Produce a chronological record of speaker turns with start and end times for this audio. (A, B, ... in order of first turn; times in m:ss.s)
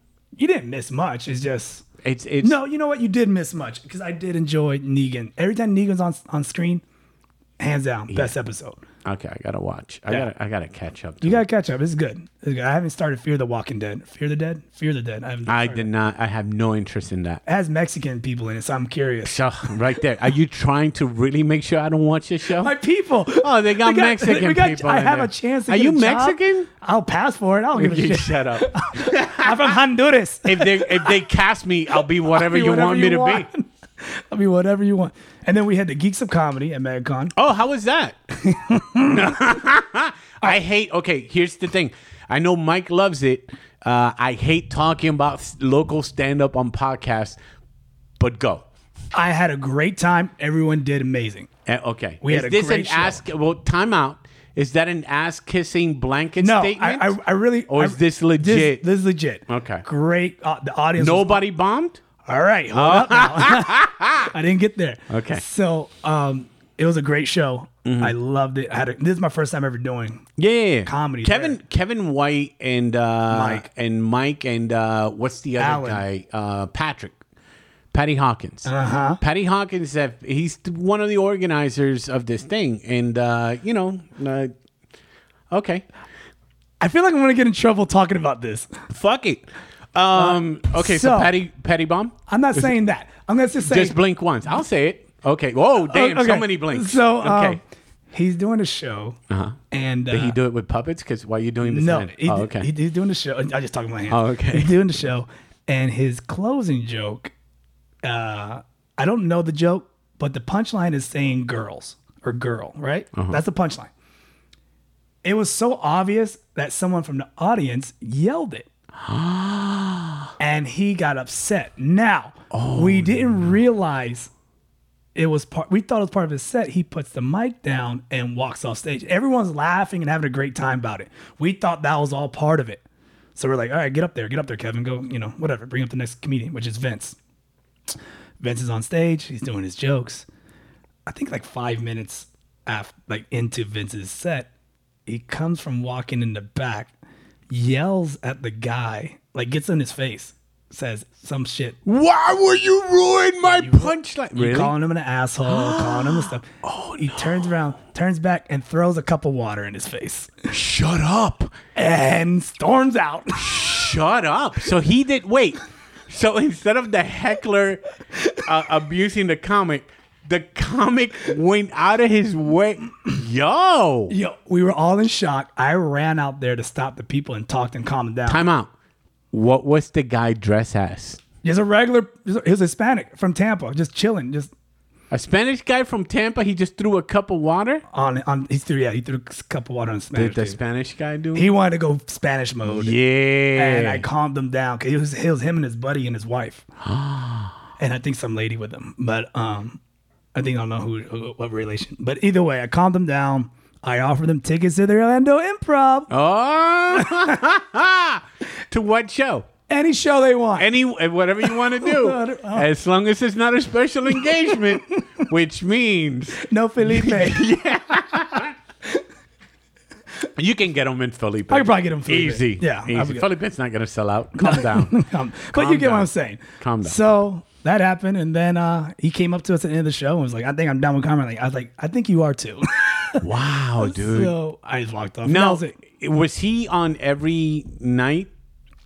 0:00.4-0:01.9 A
0:02.0-0:02.6 B
0:02.4-0:06.8 A
0:07.6-0:08.8 A
0:09.0-0:11.4 B
0:11.2-0:15.9 A
0:15.4-0:17.4 B
0:17.4-0:19.4 A
0:19.2-0:22.7 B
0:22.6-0:31.2 A
0:23.4-0:26.7 B
0:27.7-0:29.8 B
0:30.4-0:33.5 B
0:32.0-0:37.3 A
0:37.3-0:38.2 B
0:38.4-0:39.4 A
0:39.1-0:47.4 B
0:48.2-0:48.6 B
0:49.1-0:51.5 A
0:51.6-0:57.2 B
0:52.2-0:53.2 A
0:56.4-1:01.4 A
0:57.7-0:58.8 B
0:59.5-0:59.8 B
1:01.0-1:02.0 B
1:02.2-1:10.3 A
1:02.7-1:04.3 B
1:05.1-1:05.4 B
1:07.8-1:08.1 B
1:10.4-1:17.2 B
1:10.8-1:11.6 A
1:13.3-1:13.6 A
1:15.6-1:16.0 A
1:17.9-1:24.5 B
1:18.6-1:19.2 A
1:25.5-1:25.8 B
1:26.8-1:28.7 A
1:28.9-1:32.7 B
1:30.1-1:31.3 A
1:32.3-1:34.0 A
1:33.6-1:37.6 B
1:35.8-1:37.6 A
1:38.1-1:39.2 A
1:39.3-1:39.6 B
1:39.7-1:40.4 A
1:40.1-1:42.7 B
1:41.6-1:47.3 A
1:44.1-1:44.8 B
1:48.0-1:53.9 A
1:55.2-1:58.7 A
1:59.0-2:00.3 B
2:00.4-2:04.3 A
2:02.5-2:03.5 B
2:05.2-2:12.8 A
2:13.4-2:17.2 A
2:18.4-2:20.3 A
2:21.0-2:24.5 A
2:25.0-2:26.9 A
2:27.5-2:31.8 A
2:31.8-2:34.7 B
2:33.4-2:36.5 A
2:35.4-2:37.5 B
2:37.0-2:40.5 A
2:40.5-2:41.5 B
2:41.7-2:43.7 A
2:43.3-2:47.8 B
2:48.4-2:54.1 B
2:54.1-2:58.4 A
2:58.3-2:58.7 B
2:59.3-3:01.2 B
3:01.4-3:04.5 A
3:05.1-3:07.8 B
3:07.9-3:10.6 A
3:10.1-3:11.5 B
3:11.3-3:13.0 A
3:12.6-3:14.0 B
3:13.5-3:16.7 A
3:16.8-3:17.6 B
3:17.8-3:19.8 A
3:20.3-3:26.1 A
3:26.1-3:29.5 B
3:29.7-3:30.7 A
3:30.6-3:38.5 B
3:31.4-3:32.7 A
3:36.4-3:37.4 A
3:40.4-3:47.0 B
3:41.5-3:43.2 A
3:44.4-3:53.2 A
3:53.2-3:54.3 B
3:53.8-3:55.7 A
3:55.2-3:58.3 B